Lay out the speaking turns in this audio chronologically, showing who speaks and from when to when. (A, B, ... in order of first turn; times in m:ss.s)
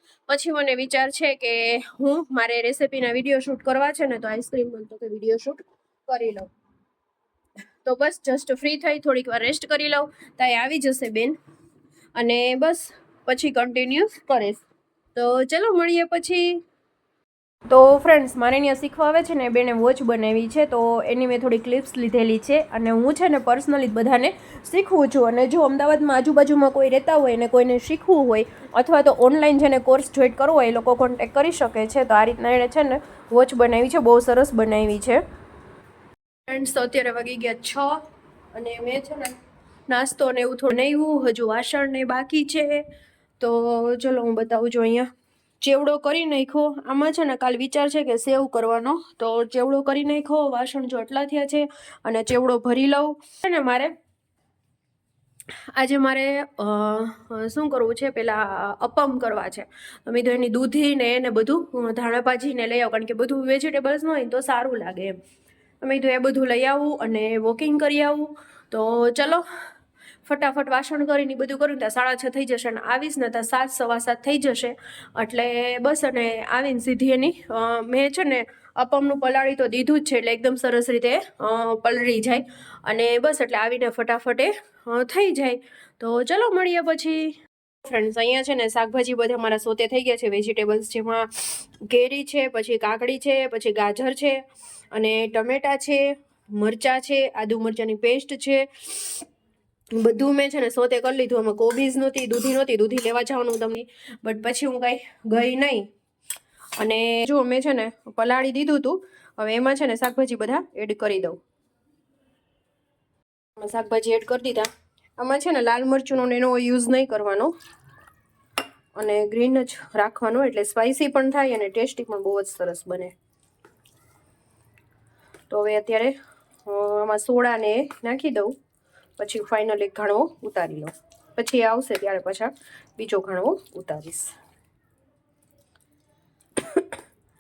0:00.3-0:06.5 A
0:07.8-0:11.4 A
0:12.2-0:14.6 A
0:15.2-0:16.6 A
0:17.7-0:35.2 A
0:36.5-0:42.9 A
0:43.4-0:54.0 A
0:55.7-1:05.2 A
1:05.8-1:09.5 A
1:10.2-1:39.3 A
1:39.9-1:45.9 A
1:46.8-1:51.4 A
1:53.6-1:57.5 A
1:59.0-2:03.1 A
2:05.5-2:08.6 A
2:09.2-2:14.4 A